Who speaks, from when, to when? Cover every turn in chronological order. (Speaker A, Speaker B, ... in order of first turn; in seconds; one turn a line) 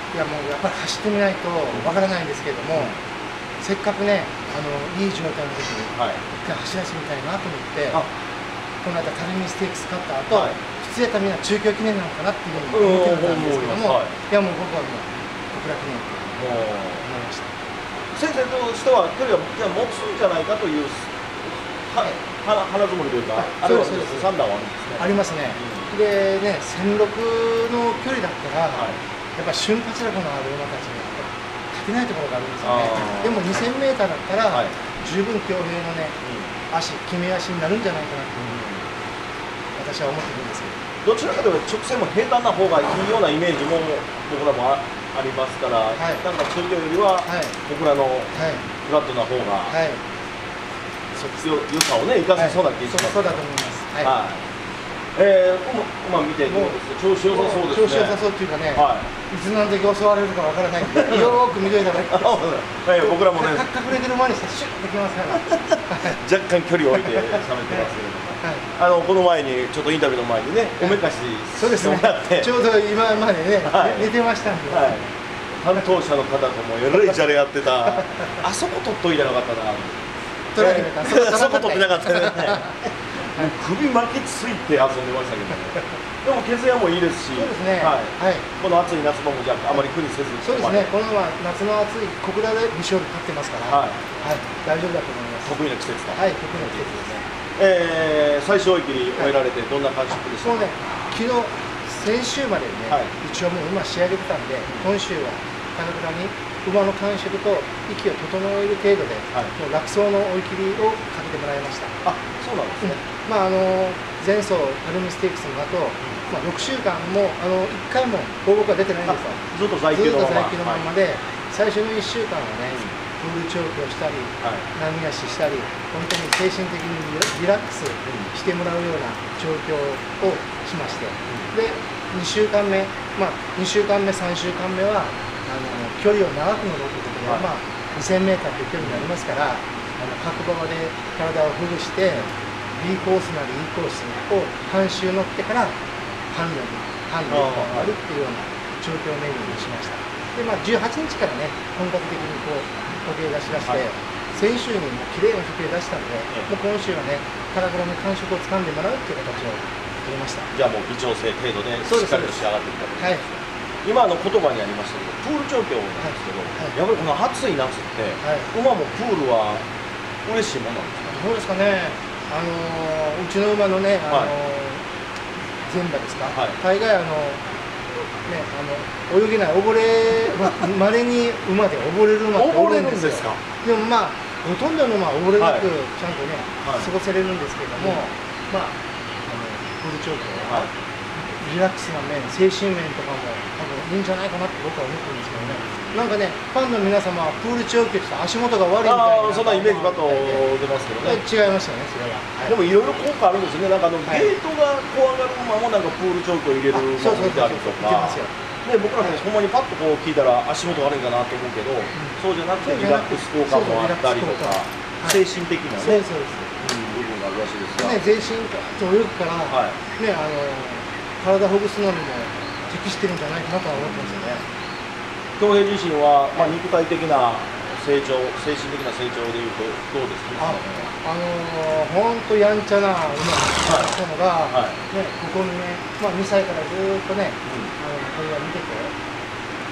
Speaker A: 0.1-2.9
Speaker A: 3.6-8.0
Speaker B: 6.0-6.2
Speaker A: 8.8-17.5
Speaker B: 10.3-10.6
Speaker B: 12.6-14.1
Speaker B: 16.4-17.0
Speaker B: 18.1-25.9
Speaker A: 23.4-24.3
Speaker A: 25.0-36.1
Speaker B: 28.7-29.0
Speaker B: 32.6-33.4
Speaker B: 34.5-34.8
Speaker B: 36.2-36.5
Speaker A: 36.7-38.6
Speaker B: 38.4-38.8
Speaker A: 39.8-40.8
Speaker B: 41.0-49.8
Speaker A: 46.0-46.2
Speaker A: 47.2-47.5
Speaker A: 48.3-48.6
Speaker A: 49.7-50.0
Speaker B: 51.1-53.4
Speaker A: 52.4-54.1
Speaker B: 54.0-54.4
Speaker B: 55.1-58.2
Speaker A: 56.5-66.2
Speaker B: 58.7-59.1
Speaker B: 60.9-61.4
Speaker B: 62.1-63.7
Speaker B: 65.4-72.5
Speaker A: 67.0-67.4
Speaker A: 71.6-75.0
Speaker B: 73.7-74.1
Speaker B: 74.7-75.0
Speaker B: 75.6-80.1
Speaker A: 80.5-82.8
Speaker B: 80.6-90.9
Speaker A: 87.3-88.5
Speaker A: 90.4-95.5
Speaker B: 93.7-94.0
Speaker B: 95.4-96.8
Speaker A: 96.1-97.2
Speaker B: 97.6-100.7
Speaker A: 100.4-111.9
Speaker B: 112.0-113.0
Speaker A: 112.8-145.8
Speaker B: 119.1-120.8
Speaker B: 128.0-128.3
Speaker B: 138.8-139.1
Speaker A: 146.3-160.5
Speaker B: 147.3-147.9
Speaker B: 160.5-169.6
Speaker A: 161.9-162.4
Speaker A: 163.0-163.2
Speaker A: 166.0-166.7
Speaker A: 168.2-168.5
Speaker B: 170.2-171.2
Speaker A: 171.1-174.8
Speaker A: 175.7-177.4
Speaker B: 176.3-176.6
Speaker A: 178.2-200.5
Speaker B: 182.3-183.4
Speaker B: 185.4-185.7
Speaker B: 186.6-186.9
Speaker B: 195.4-196.0
Speaker B: 198.8-201.2
Speaker A: 201.0-202.6
Speaker B: 202.4-216.0
Speaker A: 204.1-204.3
Speaker A: 206.7-208.3
Speaker A: 211.9-215.2
Speaker A: 215.8-216.5
Speaker B: 216.6-218.0
Speaker A: 217.8-224.4
Speaker B: 219.5-219.8
Speaker B: 223.8-224.3
Speaker B: 225.4-230.9
Speaker A: 230.4-238.9
Speaker B: 233.6-233.9
Speaker B: 234.5-234.8
Speaker B: 237.4-237.7